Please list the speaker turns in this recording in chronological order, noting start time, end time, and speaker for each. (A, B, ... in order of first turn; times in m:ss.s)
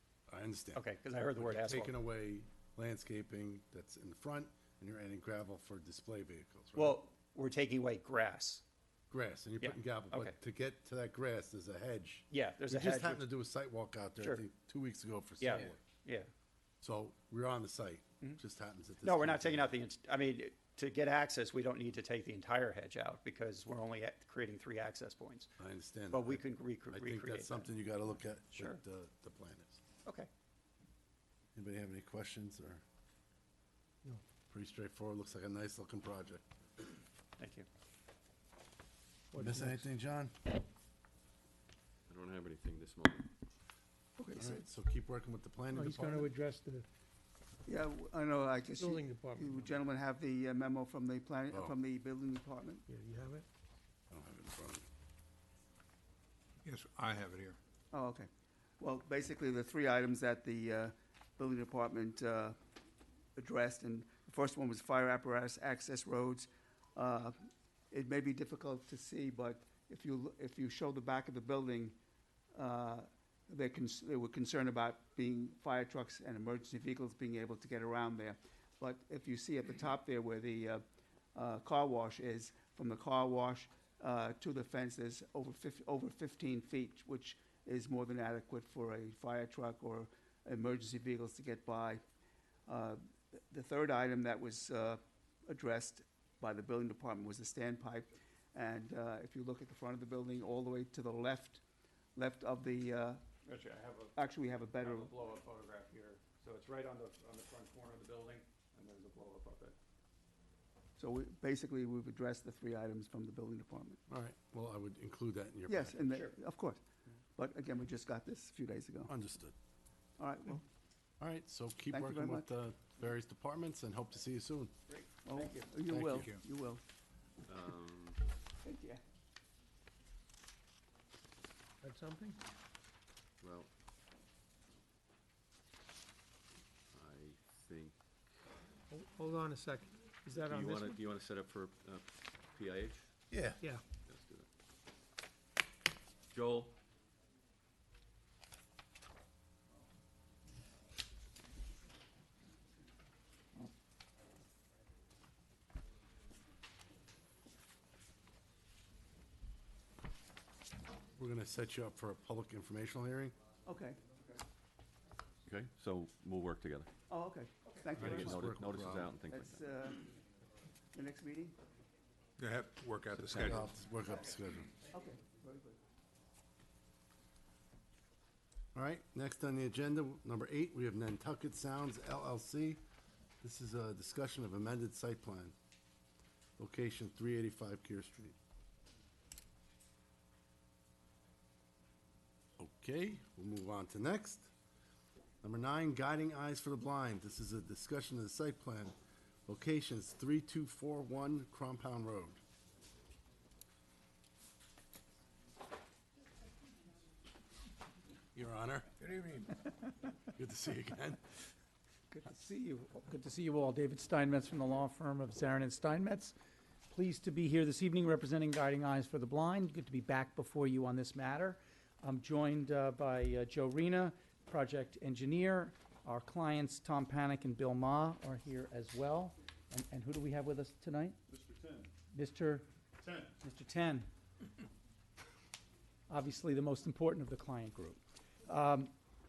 0:00.3-0:07.0 A
0:00.8-0:02.0 B
0:06.8-0:08.6 B
0:09.1-0:15.8 A
0:09.6-0:10.4 B
0:12.3-0:13.2 B
0:15.4-0:16.3 B
0:16.8-0:19.7 A
0:19.0-0:25.5 B
0:25.6-0:29.8 A
0:26.1-0:27.7 B
0:31.6-0:32.8 A
0:34.5-0:36.4 A
0:37.4-0:37.7 B
0:39.3-0:39.9 C
0:39.4-0:40.3 A
0:42.1-0:43.3 D
0:44.2-0:44.6 E
0:44.4-0:46.3 A
0:45.7-0:46.8 C
0:47.7-0:52.8 E
0:48.8-0:49.7 C
0:52.9-0:53.4 C
0:54.1-0:54.8 A
0:56.6-0:57.6 F
0:57.9-0:58.3 E
0:58.8-1:02.6 E
1:03.4-1:07.3 E
1:07.9-1:12.0 E
1:12.5-1:20.8 E
1:21.3-1:32.0 E
1:32.7-1:33.0 E
1:33.5-1:41.6 E
1:42.2-1:43.2 E
1:43.4-1:44.2 B
1:44.2-1:45.2 E
1:44.8-1:49.8 B
1:51.0-1:54.0 E
1:54.1-1:56.0 A
1:55.7-1:56.8 E
1:56.0-1:56.3 B
1:57.4-1:59.1 E
1:59.1-1:59.5 A
2:00.2-2:00.6 E
2:01.2-2:04.7 A
2:01.9-2:02.5 E
2:04.9-2:05.6 B
2:05.2-2:06.8 E
2:05.9-2:06.3 A
2:06.2-2:06.4 F
2:07.5-2:08.2 D
2:08.6-2:09.0 E
2:11.8-2:12.4 C
2:13.4-2:13.7 D
2:16.9-2:18.0 D
2:18.9-2:21.0 C
2:20.3-2:23.1 D
2:23.3-2:23.6 A
2:24.0-2:24.5 D
2:26.3-2:26.8 D
2:41.2-2:43.3 A
2:43.7-2:44.0 E
2:45.4-2:46.9 D
2:47.1-2:48.6 E
2:48.0-2:49.1 A
2:48.0-2:49.6 D
2:49.2-2:50.1 E
2:50.9-2:51.6 E
2:52.4-2:53.7 F
2:53.3-2:54.7 A
2:54.9-2:55.8 E
2:58.8-3:02.8 A
3:03.4-3:05.5 A
3:06.6-3:08.4 A
3:12.6-3:14.5 A
3:15.4-3:18.9 A
3:19.5-3:22.4 A
3:28.3-3:29.1 A
3:30.3-3:31.2 A
3:32.3-3:36.4 G
3:36.9-3:51.2 G
3:52.1-3:52.7 G
3:53.4-3:54.1 G
3:56.1-3:58.9 G